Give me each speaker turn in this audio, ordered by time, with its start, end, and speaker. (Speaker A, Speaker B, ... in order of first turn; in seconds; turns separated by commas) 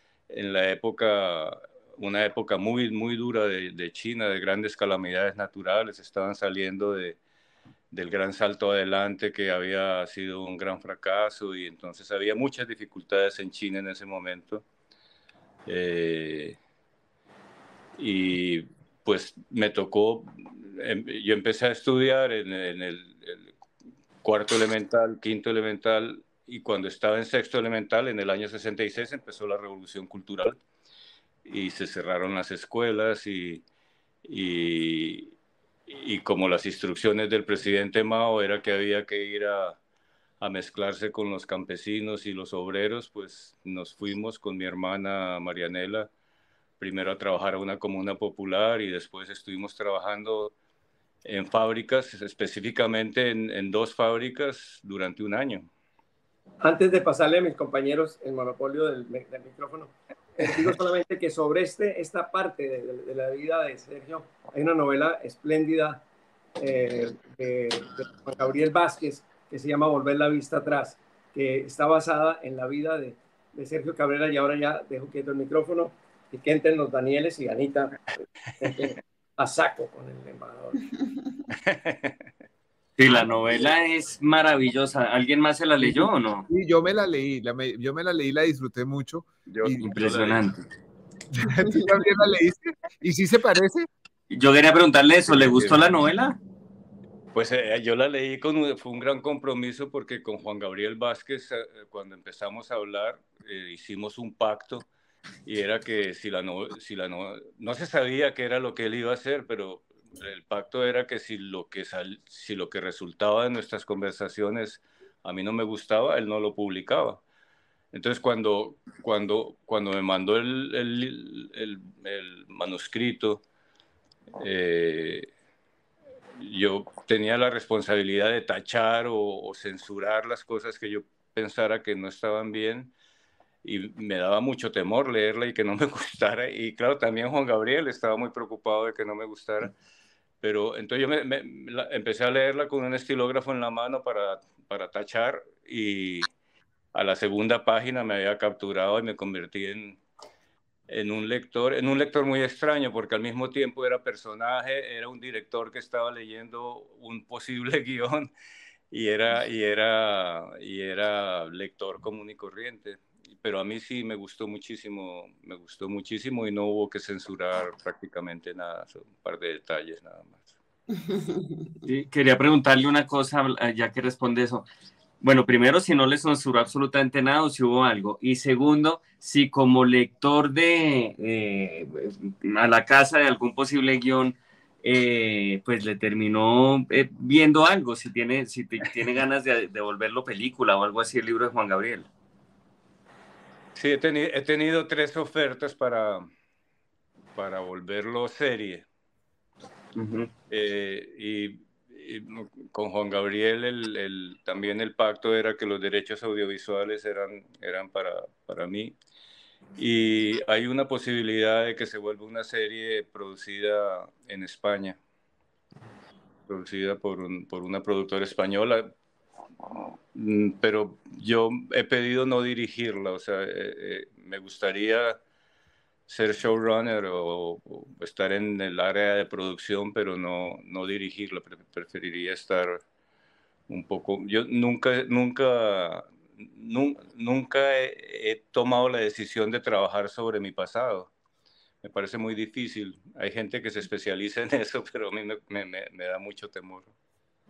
Speaker A: 0.3-7.2, Speaker A: 7.9-14.6, Speaker A: 15.7-16.6, Speaker A: 18.0-23.5, Speaker A: 24.2-30.6, Speaker A: 31.4-33.6, Speaker A: 34.2-35.3, Speaker A: 35.9-39.8, Speaker A: 40.4-46.1, Speaker A: 46.8-50.5, Speaker A: 51.2-55.7, Speaker B: 56.6-66.0, Speaker B: 66.6-81.0, Speaker A: 81.7-82.1, Speaker C: 83.0-86.5, Speaker D: 86.5-89.9, Speaker A: 89.5-90.4, Speaker C: 89.8-90.6, Speaker D: 91.3-93.9, Speaker C: 94.3-96.4, Speaker A: 95.3-95.9, Speaker A: 97.3-104.8, Speaker A: 105.4-117.2, Speaker A: 117.9-123.4, Speaker A: 124.3-125.3, Speaker A: 126.3-132.9, Speaker A: 133.6-139.7, Speaker A: 140.4-146.3, Speaker A: 146.9-150.0, Speaker A: 150.9-158.3, Speaker A: 158.9-170.4, Speaker C: 171.8-174.7, Speaker C: 175.2-192.1, Speaker A: 193.7-196.3, Speaker A: 197.3-198.8, Speaker C: 199.9-200.3, Speaker A: 200.5-208.9, Speaker A: 209.8-215.0, Speaker A: 216.5-218.9, Speaker A: 220.1-225.2, Speaker A: 226.1-232.8, Speaker A: 233.7-241.1, Speaker A: 241.8-246.9